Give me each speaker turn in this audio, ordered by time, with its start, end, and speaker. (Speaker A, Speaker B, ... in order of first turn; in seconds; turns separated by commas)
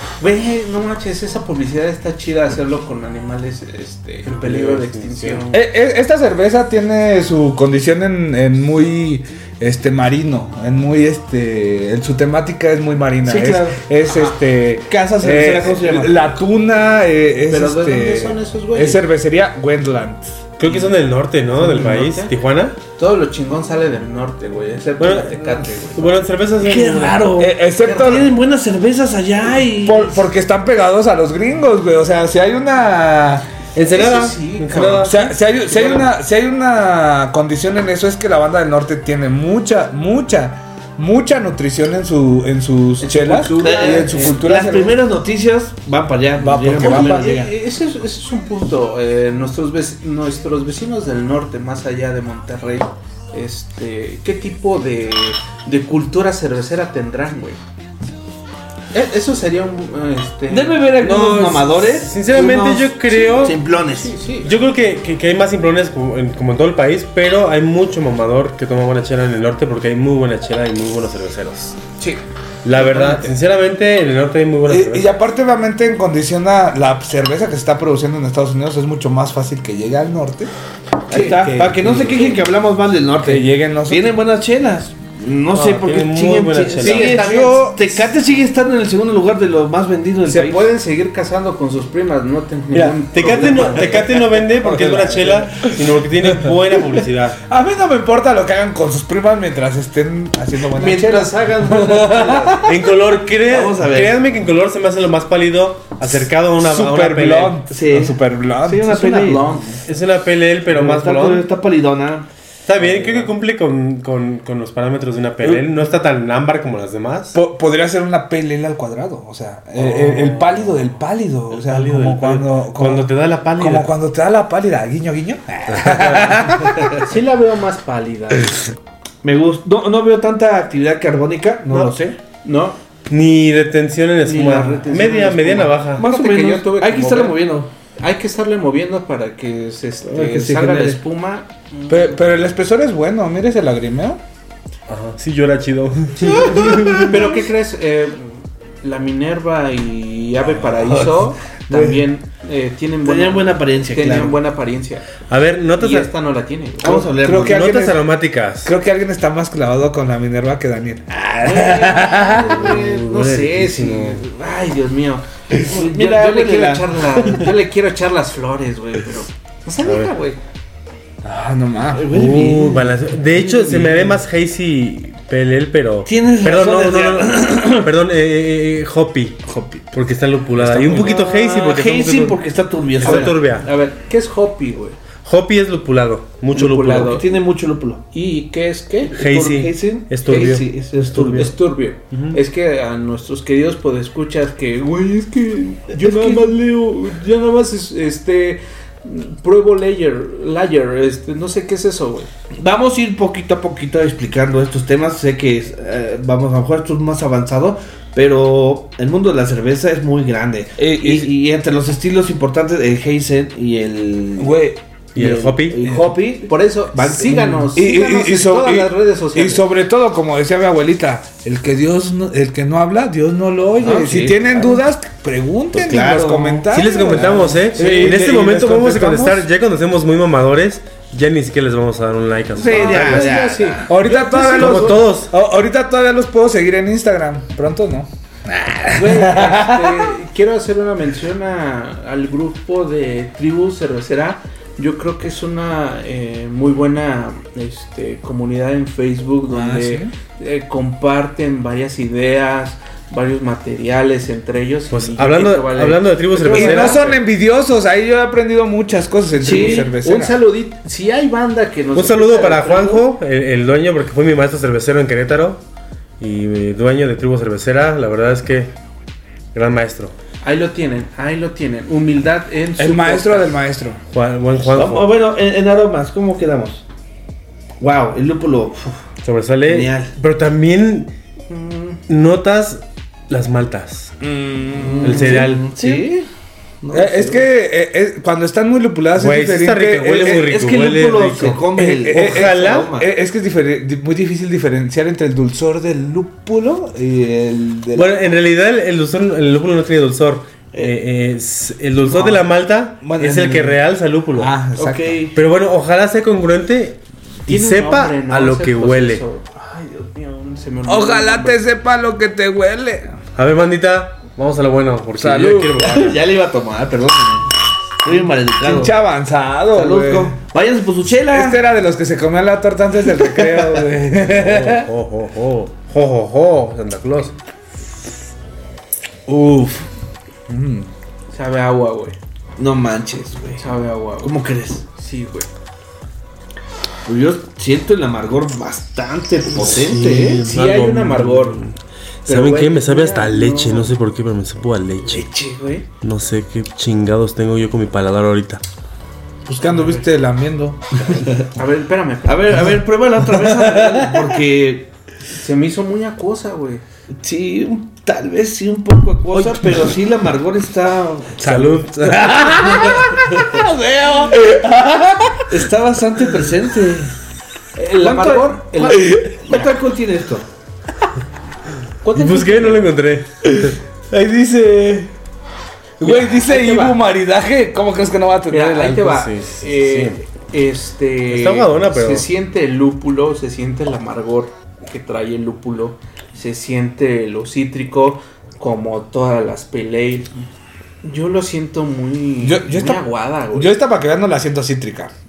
Speaker A: 0.2-5.6, Speaker B: 4.3-5.4, Speaker C: 5.5-20.4, Speaker D: 13.2-13.8, Speaker A: 14.1-14.4, Speaker D: 14.9-16.2, Speaker A: 17.5-19.1, Speaker B: 20.6-22.8, Speaker A: 21.6-22.3, Speaker A: 23.0-26.1, Speaker B: 25.0-27.3, Speaker D: 26.6-30.3, Speaker C: 27.4-28.3, Speaker A: 27.8-28.1, Speaker C: 29.8-33.5, Speaker B: 33.7-35.2, Speaker A: 33.9-36.1, Speaker C: 35.0-45.0, Speaker A: 43.0-44.4, Speaker D: 43.5-47.5, Speaker C: 46.4-47.4, Speaker A: 46.8-57.6, Speaker A: 58.9-60.9, Speaker D: 60.5-64.1, Speaker B: 61.0-63.6, Speaker A: 63.8-64.5, Speaker B: 64.4-71.8, Speaker B: 72.6-75.1, Speaker A: 72.7-73.3, Speaker C: 74.7-80.5, Speaker D: 81.1-90.6, Speaker A: 81.1-81.4, Speaker C: 81.1-82.4, Speaker C: 83.2-84.2, Speaker B: 85.5-87.5, Speaker A: 86.8-87.6, Speaker C: 87.1-87.6, Speaker A: 90.2-94.2, Speaker B: 92.7-97.4, Speaker D: 93.3-94.0, Speaker C: 94.6-95.7, Speaker C: 97.5-102.6, Speaker A: 100.7-102.6, Speaker D: 101.7-102.7, Speaker B: 102.6-107.6, Speaker D: 103.4-104.2, Speaker C: 106.6-109.4, Speaker D: 107.7-109.6, Speaker A: 108.8-109.8, Speaker B: 109.9-111.5, Speaker D: 110.7-112.2, Speaker B: 112.7-117.4, Speaker D: 112.9-113.3, Speaker C: 117.3-127.0, Speaker B: 119.8-120.9, Speaker B: 121.5-123.9, Speaker B: 125.7-126.6, Speaker A: 127.0-128.6, Speaker D: 129.2-132.2, Speaker B: 131.7-131.9, Speaker A: 132.4-132.8, Speaker B: 133.1-136.0, Speaker A: 134.2-137.5, Speaker D: 136.0-137.7, Speaker A: 138.0-142.2, Speaker D: 140.1-141.0, Speaker C: 141.9-144.2, Speaker B: 144.9-147.2, Speaker C: 146.4-147.0, Speaker A: 147.0-155.1, Speaker C: 150.8-152.0, Speaker D: 153.0-154.4, Speaker B: 155.3-156.1, Speaker A: 155.8-157.1, Speaker D: 156.8-157.7, Speaker C: 157.1-158.1, Speaker B: 157.3-158.7, Speaker C: 158.6-162.6, Speaker A: 161.4-170.4, Speaker B: 162.3-164.2, Speaker D: 165.6-167.3, Speaker B: 169.8-170.1, Speaker C: 171.2-172.1, Speaker D: 171.9-174.2, Speaker B: 172.1-179.4, Speaker D: 176.1-177.9, Speaker D: 179.4-179.9, Speaker B: 179.9-182.4, Speaker D: 180.6-183.4, Speaker B: 182.9-183.7, Speaker A: 183.0-185.0, Speaker B: 185.2-187.2, Speaker A: 186.5-187.3, Speaker D: 186.9-188.0, Speaker A: 188.1-189.1, Speaker D: 189.1-191.5, Speaker B: 189.1-191.5, Speaker A: 190.3-190.6, Speaker A: 191.2-202.3, Speaker B: 192.1-192.4, Speaker D: 195.9-196.5, Speaker D: 202.6-214.6, Speaker C: 210.8-211.3, Speaker C: 214.4-214.8, Speaker B: 215.1-215.9, Speaker D: 215.1-217.8, Speaker A: 216.4-219.6, Speaker C: 217.7-229.4, Speaker D: 223.8-224.8, Speaker D: 225.7-228.2, Speaker B: 226.7-233.4, Speaker D: 232.6-233.9, Speaker A: 232.6-235.1, Speaker C: 233.9-240.1, Speaker B: 234.4-235.3, Speaker A: 238.9-257.2, Speaker C: 249.5-250.1, Speaker B: 254.9-257.1, Speaker C: 256.5-260.4, Speaker D: 259.4-259.9, Speaker A: 259.4-263.1, Speaker B: 261.9-265.6, Speaker B: 266.2-268.7, Speaker B: 269.5-270.1, Speaker A: 270.4-273.5, Speaker C: 272.8-274.0, Speaker B: 274.1-275.1, Speaker D: 274.6-276.9, Speaker D: 277.8-279.0, Speaker B: 279.2-281.1, Speaker D: 279.6-280.1, Speaker A: 281.5-282.0, Speaker B: 282.1-284.1, Speaker C: 284.2-285.5, Speaker D: 284.7-286.3, Speaker B: 285.0-286.0, Speaker D: 286.8-287.4, Speaker C: 286.9-290.6, Speaker B: 289.1-292.9, Speaker D: 290.1-293.1, Speaker C: 291.8-298.2, Speaker B: 297.9-304.6, Speaker C: 302.1-302.4, Speaker C: 303.0-303.8, Speaker C: 304.4-305.3, Speaker D: 304.8-305.4, Speaker B: 305.4-309.2, Speaker A: 307.5-311.6, Speaker C: 310.9-313.2, Speaker B: 313.4-316.2, Speaker C: 315.2-316.1, Speaker D: 315.4-317.5, Speaker D: 318.0-318.9, Speaker C: 318.6-320.4, Speaker D: 319.7-321.6, Speaker C: 321.2-324.9, Speaker B: 324.2-327.4, Speaker D: 329.3-329.8, Speaker C: 330.5-330.9, Speaker A: 331.3-332.1, Speaker D: 332.6-334.8, Speaker A: 333.6-335.5, Speaker D: 337.1-340.5, Speaker B: 339.6-345.2, Speaker A: 340.4-341.6, Speaker A: 342.2-344.0, Speaker A: 345.0-345.9, Speaker B: 346.0-348.6, Speaker C: 349.4-351.1, Speaker A: 349.6-350.1, Speaker D: 351.1-351.4, Speaker A: 351.6-352.8, Speaker D: 352.2-354.9, Speaker C: 353.4-354.2, Speaker A: 355.4-356.8, Speaker D: 357.2-363.6, Speaker B: 361.4-362.4, Speaker C: 361.5-365.4, Speaker D: 365.5-367.1, Speaker A: 367.8-369.7, Speaker D: 368.0-370.4, Speaker C: 369.0-369.4, Speaker A: 372.0-372.9, Speaker B: 372.1-373.8, Speaker C: 373.5-375.1, Speaker C: 376.0-379.2, Speaker A: 376.0-377.0, Speaker A: 378.5-390.3, Speaker B: 379.1-380.2, Speaker B: 381.3-382.3, Speaker A: 391.0-393.8, Speaker C: 392.4-395.1